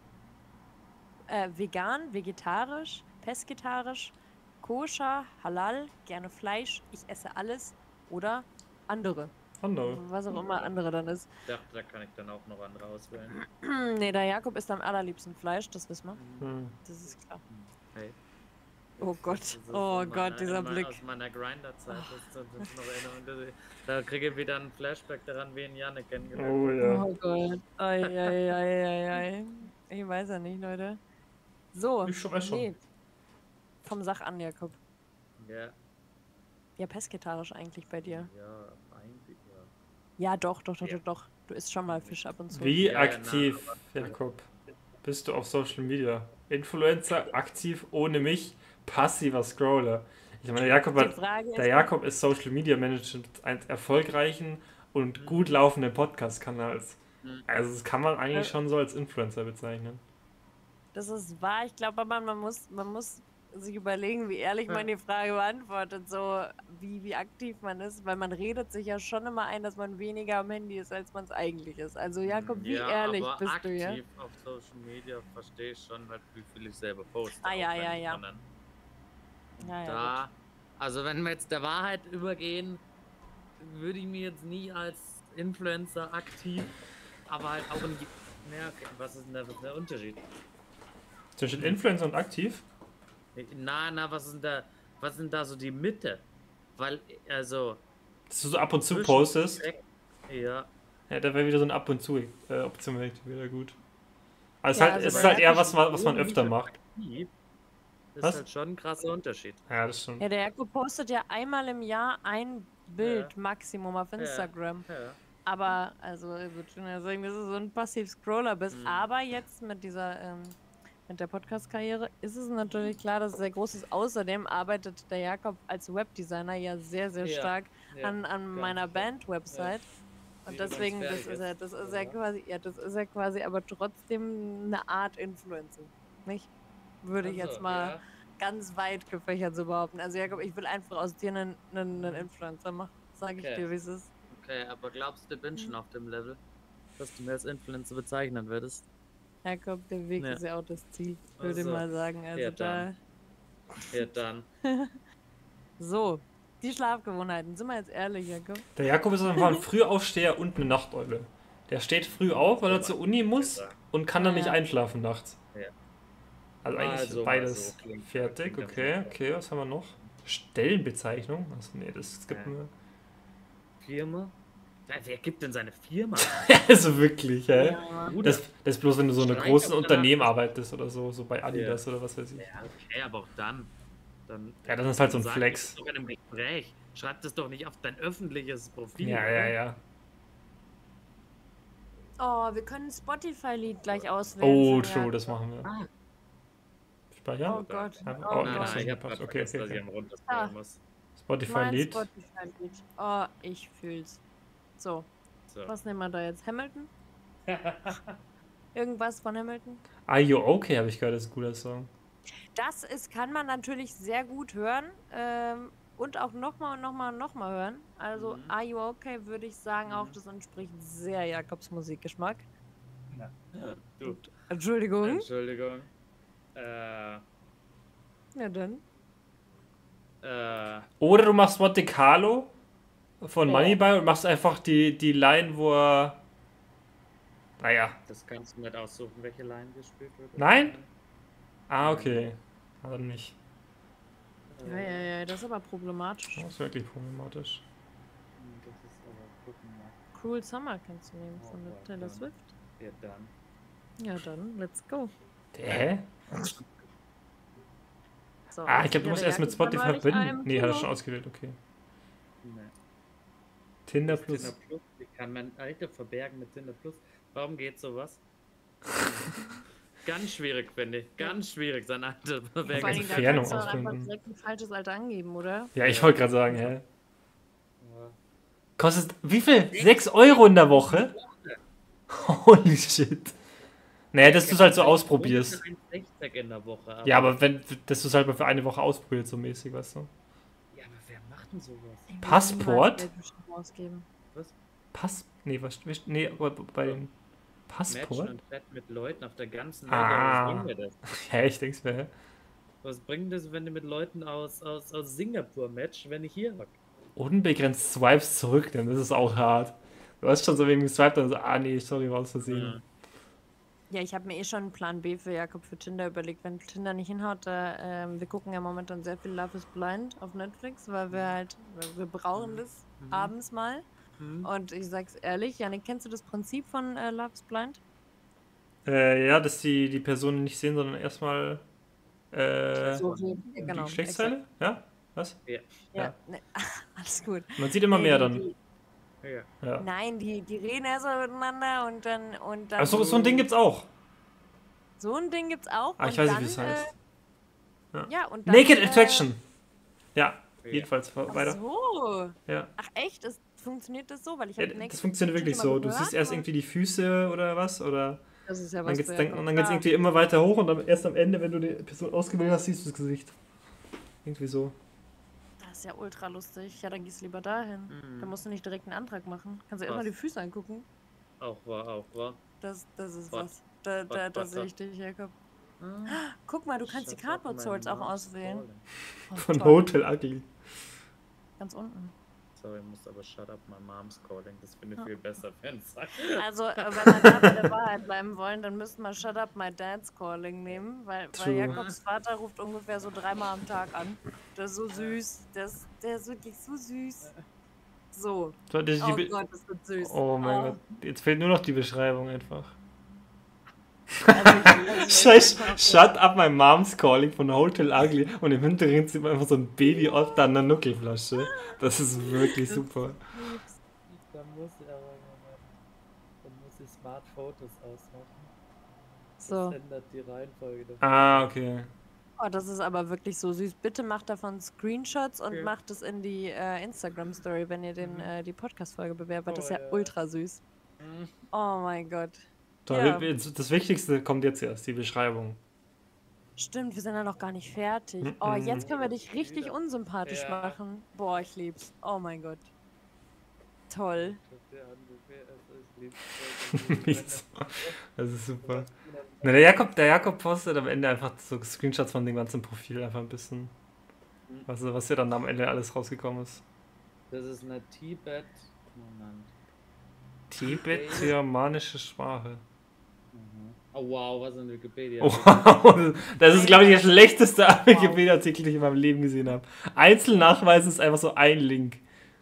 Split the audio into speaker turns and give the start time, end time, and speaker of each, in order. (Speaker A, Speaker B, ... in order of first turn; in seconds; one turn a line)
Speaker A: 1.3-11.3
Speaker B: 9.6-10.0
Speaker C: 10.3-10.7
Speaker C: 11.5-13.4
Speaker A: 13.3-16.2
Speaker C: 16.1-16.5
Speaker B: 16.4-16.8
Speaker A: 16.9-17.4
Speaker C: 17.1-18.2
Speaker C: 19.0-26.8
Speaker A: 19.0-21.0
Speaker B: 26.4-27.1
Speaker A: 26.8-31.0
Speaker C: 28.1-28.4
Speaker A: 31.7-32.8
Speaker B: 32.0-32.7
Speaker A: 33.8-34.8
Speaker C: 35.4-35.8
Speaker A: 36.8-38.3
Speaker C: 38.0-39.7
Speaker A: 40.2-42.9
Speaker C: 41.9-42.2
Speaker B: 42.5-44.5
Speaker C: 42.8-44.2
Speaker B: 45.0-60.0
Speaker A: 50.9-51.9
Speaker C: 55.2-55.5
Speaker A: 60.9-74.0
Speaker C: 72.3-78.4
Speaker A: 77.4-78.2
Speaker C: 79.6-82.8
Speaker A: 79.6-80.2
Speaker C: 83.6-86.7
Speaker C: 87.3-90.2
Speaker B: 91.4-92.7
Speaker C: 93.3-96.2
Speaker C: 96.8-97.8
Speaker B: 98.3-99.6
Speaker C: 98.9-100.7
Speaker B: 101.1-103.8
Speaker B: 104.6-106.7
Speaker A: 104.7-105.8
Speaker C: 104.9-107.3
Speaker C: 108.2-109.6
Speaker B: 109.7-110.2
Speaker A: 110.2-114.9
Speaker C: 113.0-113.3
Speaker C: 114.2-115.2
Speaker A: 115.5-129.9
Speaker C: 118.7-119.1
Speaker C: 127.2-129.7
Speaker C: 130.5-132.2
Speaker A: 130.5-136.5
Speaker A: 137.0-144.1
Speaker C: 137.2-138.0
Speaker C: 141.9-142.3
Speaker C: 143.4-143.7
Speaker C: 144.3-146.4
Speaker C: 147.0-148.9
Speaker A: 149.4-152.9
Speaker C: 151.4-152.9
Speaker C: 153.9-154.5
Speaker A: 154.6-155.0
Speaker A: 155.8-158.7
Speaker B: 158.8-165.4
Speaker A: 159.3-159.6
Speaker C: 162.3-163.8
Speaker A: 164.2-164.6
Speaker B: 166.6-172.7
Speaker C: 166.7-169.2
Speaker C: 172.3-172.6
Speaker C: 173.8-174.3
Speaker C: 174.9-176.5
Speaker B: 176.2-182.5
Speaker A: 177.5-178.2
Speaker C: 178.0-178.5
Speaker C: 179.2-180.4
Speaker C: 181.5-181.8
Speaker C: 182.4-183.7
Speaker C: 184.3-189.6
Speaker B: 184.7-185.8
Speaker B: 189.0-189.8
Speaker A: 192.2-195.3
Speaker C: 193.9-194.4
Speaker B: 194.4-195.7
Speaker B: 197.1-199.8
Speaker C: 197.4-200.8
Speaker A: 197.4-198.9
Speaker A: 200.3-200.5
Speaker B: 201.2-202.1
Speaker A: 201.4-204.2
Speaker A: 204.8-205.1
Speaker C: 205.5-205.7
Speaker A: 205.7-206.9
Speaker C: 207.5-208.2
Speaker A: 208.7-209.8
Speaker B: 210.1-211.9
Speaker A: 212.6-222.5
Speaker C: 218.1-218.6
Speaker C: 219.9-220.2
Speaker C: 223.1-224.2
Speaker A: 224.1-225.3
Speaker C: 225.0-225.9
Speaker C: 226.6-227.2
Speaker A: 228.3-228.8
Speaker C: 230.2-230.9
Speaker B: 231.0-232.5
Speaker B: 233.2-236.2
Speaker A: 233.4-233.8
Speaker B: 237.6-238.0
Speaker C: 238.1-240.9
Speaker B: 240.4-240.8
Speaker B: 241.7-243.4
Speaker C: 241.8-242.3
Speaker C: 244.5-245.1
Speaker A: 244.6-246.5
Speaker B: 246.4-247.6
Speaker C: 248.4-250.0
Speaker A: 250.2-252.5
Speaker C: 251.3-253.3
Speaker A: 254.0-255.1
Speaker B: 255.5-256.1
Speaker A: 258.5-260.9
Speaker B: 258.7-261.6
Speaker C: 262.4-262.7
Speaker B: 263.9-264.5
Speaker C: 264.1-268.2
Speaker C: 269.0-269.4
Speaker C: 270.0-273.9
Speaker A: 272.7-275.7
Speaker B: 272.7-274.1
Speaker B: 275.8-276.8
Speaker C: 275.8-276.7
Speaker C: 277.8-278.2
Speaker B: 278.8-281.1
Speaker C: 280.7-281.6
Speaker B: 282.1-283.4
Speaker B: 284.1-285.6
Speaker C: 284.2-287.4
Speaker B: 287.1-290.1
Speaker C: 290.7-292.1
Speaker A: 292.1-294.1
Speaker B: 292.2-293.1
Speaker B: 294.9-297.1
Speaker B: 297.7-298.4
Speaker C: 297.9-301.0
Speaker B: 299.9-302.1
Speaker C: 302.8-306.8
Speaker B: 307.2-312.8
Speaker C: 312.4-312.8
Speaker A: 313.9-323.9
Speaker C: 321.1-321.4
Speaker C: 322.4-323.3
Speaker C: 324.2-324.5
Speaker A: 324.4-327.8
Speaker B: 328.9-331.6
Speaker B: 332.3-335.4
Speaker C: 332.8-333.4
Speaker A: 332.9-334.3
Speaker C: 335.5-335.8
Speaker A: 335.9-338.6
Speaker B: 337.6-338.4
Speaker C: 339.2-339.5
Speaker B: 339.6-339.9
Speaker A: 339.8-343.5
Speaker B: 342.8-343.9
Speaker A: 345.0-346.9
Speaker B: 346.0-346.9
Speaker B: 347.9-349.4
Speaker A: 348.1-349.3
Speaker B: 350.1-351.6
Speaker A: 351.3-356.5
Speaker B: 354.6-358.2
Speaker A: 358.5-359.9
Speaker B: 358.9-363.4
Speaker B: 364.2-364.8
Speaker A: 365.6-370.9
Speaker C: 367.9-368.4
Speaker C: 371.4-372.4
Speaker A: 372.6-375.3
Speaker C: 374.1-374.7
Speaker C: 375.8-376.2
Speaker A: 376.1-378.6
Speaker C: 376.8-378.9
Speaker A: 379.3-379.9
Speaker B: 379.4-380.5
Speaker A: 381.6-382.1
Speaker C: 382.6-387.6
Speaker A: 386.3-397.3
Speaker B: 391.3-391.8
Speaker C: 391.7-392.0
Speaker C: 394.9-395.2
Speaker A: 398.1-400.8
Speaker B: 398.7-399.4
Speaker B: 400.0-402.8
Speaker B: 404.2-413.2
Speaker A: 404.3-406.1
Speaker C: 404.7-405.9
Speaker A: 411.4-413.8
Speaker C: 414.1-415.7
Speaker C: 416.4-418.5
Speaker A: 419.4-419.8
Speaker C: 419.4-421.5
Speaker B: 421.0-421.9
Speaker A: 422.4-430.6
Speaker C: 428.0-428.3
Speaker C: 429.5-430.1
Speaker C: 431.0-431.3
Speaker A: 431.5-433.3
Speaker B: 432.9-435.6
Speaker A: 436.6-442.7
Speaker B: 438.2-438.9
Speaker C: 438.6-440.8
Speaker A: 443.9-444.4
Speaker C: 444.1-448.0
Speaker B: 446.7-448.9
Speaker C: 448.6-449.7
Speaker B: 449.4-453.7
Speaker B: 454.7-456.6
Speaker C: 457.3-459.5
Speaker B: 460.5-462.6
Speaker C: 460.6-461.4
Speaker C: 463.3-465.8
Speaker B: 465.2-472.0
Speaker A: 466.5-468.2
Speaker C: 470.3-470.6